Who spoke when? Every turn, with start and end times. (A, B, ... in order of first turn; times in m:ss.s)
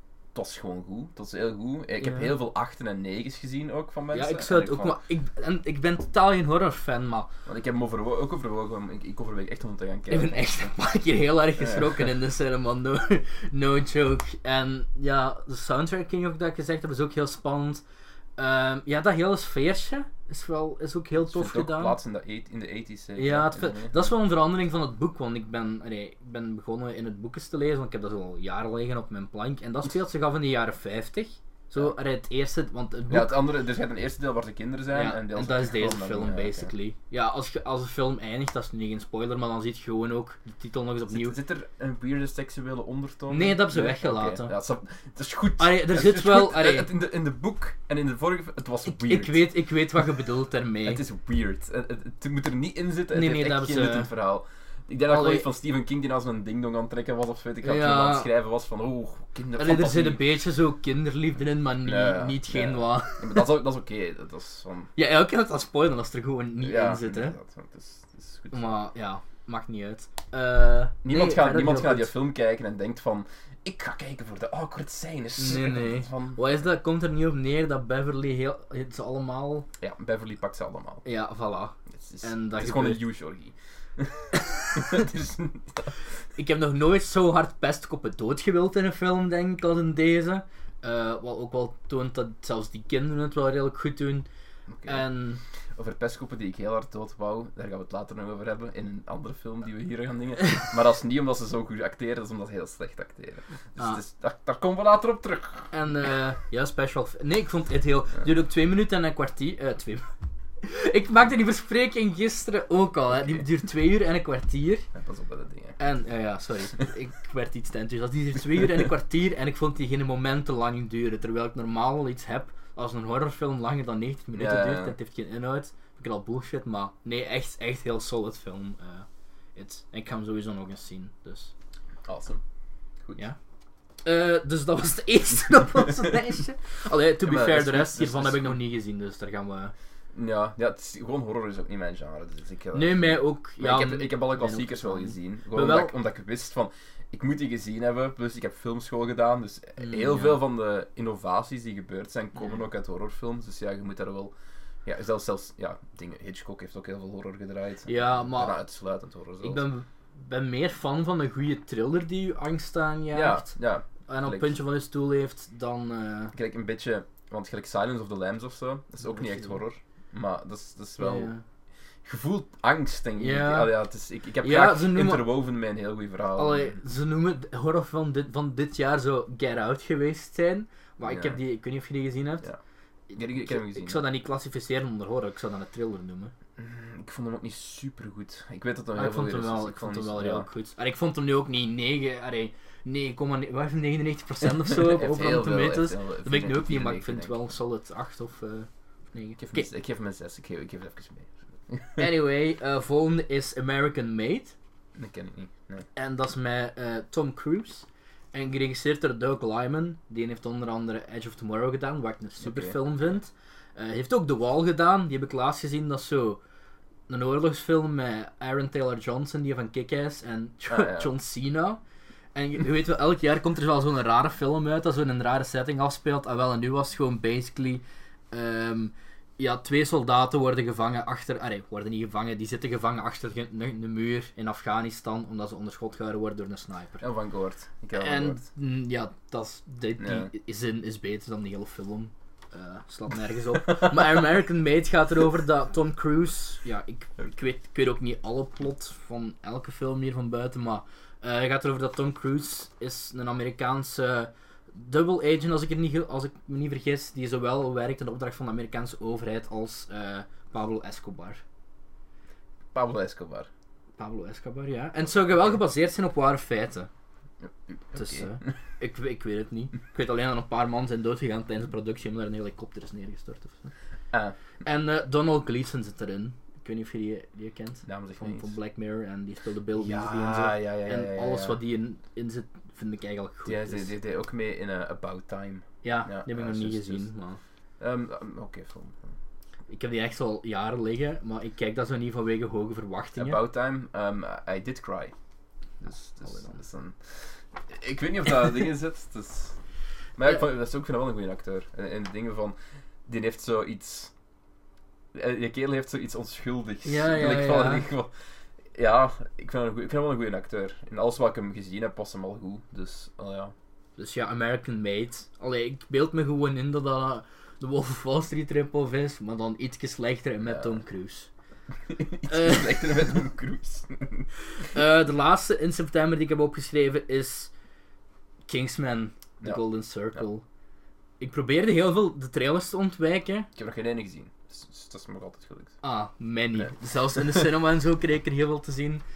0:00.3-0:05.0 A
0:02.0-0:02.3 B
0:04.1-0:07.3 B
0:07.4-0:10.7 A
0:10.1-0:17.8 B
0:11.6-0:12.1 A
0:18.4-0:22.0 B
0:21.2-0:24.1 A
0:23.2-0:33.4 B
0:33.1-0:36.7 A
0:34.9-0:41.4 B
0:41.1-0:49.4 A
0:43.3-0:44.5 B
0:45.6-0:46.9 B
0:48.8-0:51.0 B
0:50.8-1:00.2 A
0:53.1-0:54.1 B
0:55.1-0:55.5 B
0:57.6-0:58.3 B
0:59.6-1:03.4 B
1:01.8-1:04.9 A
1:05.0-1:07.4 B
1:06.6-1:08.8 A
1:08.5-1:12.1 B
1:11.0-1:16.4 A
1:15.4-1:19.7 B
1:19.8-1:21.0 A
1:21.0-1:23.0 B
1:21.9-1:25.9 A
1:24.3-1:25.0 B
1:26.4-1:34.3 B
1:34.7-1:35.0 A
1:34.8-1:35.4 B
1:35.8-1:45.7 A
1:45.7-1:50.1 B
1:50.6-1:54.9 B
1:53.2-1:53.4 A
1:54.9-1:55.8 A
1:55.8-2:11.5 B
2:04.3-2:04.9 A
2:12.0-2:12.4 A
2:14.0-2:19.7 B
2:17.2-2:18.6 A
2:20.1-2:34.3 A
2:22.7-2:25.9 B
2:29.8-2:30.4 B
2:34.8-2:39.6 A
2:37.9-2:38.6 B
2:39.4-2:43.5 B
2:43.1-2:44.6 A
2:44.1-2:46.3 B
2:46.3-2:51.3 A
2:49.0-2:49.5 B
2:51.0-2:51.4 B
2:52.0-2:56.8 A
2:53.2-2:53.8 B
2:54.4-2:55.3 B
2:56.4-3:02.4 B
3:01.0-3:01.4 A
3:03.1-3:06.3 B
3:03.1-3:04.0 A
3:06.6-3:10.4 A
3:08.9-3:19.7 B
3:14.6-3:17.3 A
3:19.4-3:22.1 A
3:22.0-3:24.5 B
3:25.0-3:25.8 A
3:26.0-3:36.4 B
3:32.4-3:32.8 A
3:37.1-3:41.8 B
3:40.6-3:41.1 A
3:42.3-3:57.0 B
3:57.0-3:58.4 A
3:57.9-4:21.4 B
4:00.0-4:00.3 A
4:22.7-4:23.5 A
4:24.0-4:26.9 B
4:27.4-4:28.5 A
4:27.9-4:33.7 B
4:34.6-4:43.9 B
4:37.8-4:38.5 A
4:39.7-4:41.6 A
4:43.4-4:47.1 A
4:45.8-4:47.4 B
4:47.8-4:49.1 A
4:49.7-4:53.4 B
4:53.2-4:55.1 A
4:55.8-4:59.6 A
4:56.2-4:56.6 B
5:00.2-5:04.1 A
5:05.1-5:08.1 A
5:06.8-5:07.8 B
5:08.7-5:13.5 A
5:14.0-5:21.3 B
5:20.4-5:20.8 A
5:21.9-5:24.3 A
5:22.3-5:22.9 B
5:24.6-5:27.5 B
5:28.5-5:30.4 B
5:31.2-5:33.5 B
5:33.6-5:35.8 A
5:35.8-5:39.0 B
5:36.6-5:37.4 A